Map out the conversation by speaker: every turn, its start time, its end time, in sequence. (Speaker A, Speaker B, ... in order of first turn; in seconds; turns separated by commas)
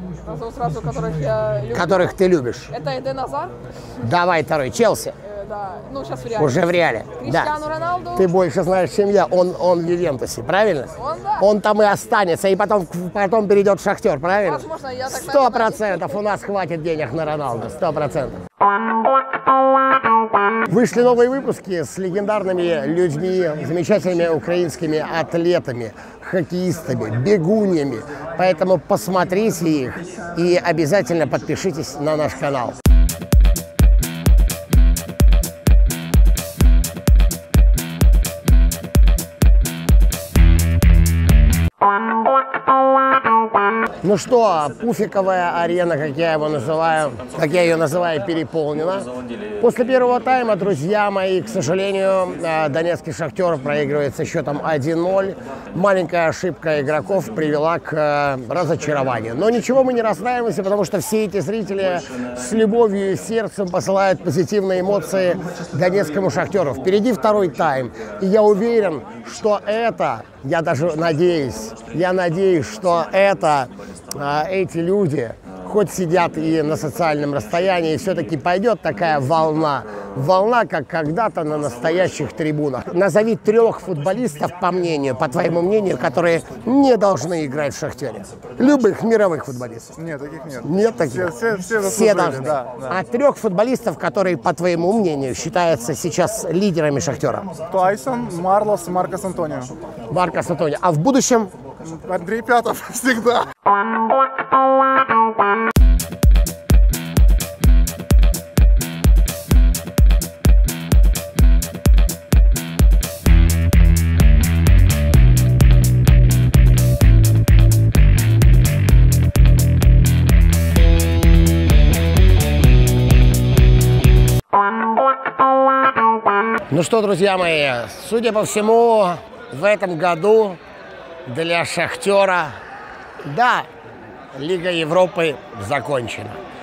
Speaker A: 0.2-2.2, Speaker B: 1.7-2.7, Speaker A: 2.7-3.5, Speaker B: 4.0-5.2, Speaker A: 5.2-8.3, Speaker B: 6.3-7.5, Speaker B: 8.2-18.4, Speaker A: 10.9-11.4, Speaker A: 14.4-16.2, Speaker B: 20.7-32.8, Speaker B: 44.0-49.1, Speaker B: 49.6-89.9, Speaker C: 90.0-92.9, Speaker B: 90.6-97.5, Speaker C: 97.7-99.7, Speaker B: 100.1-101.5, Speaker C: 101.8-103.5, Speaker B: 126.7-130.6, Speaker B: 131.3-132.5, Speaker B: 133.2-133.7, Speaker B: 134.3-136.4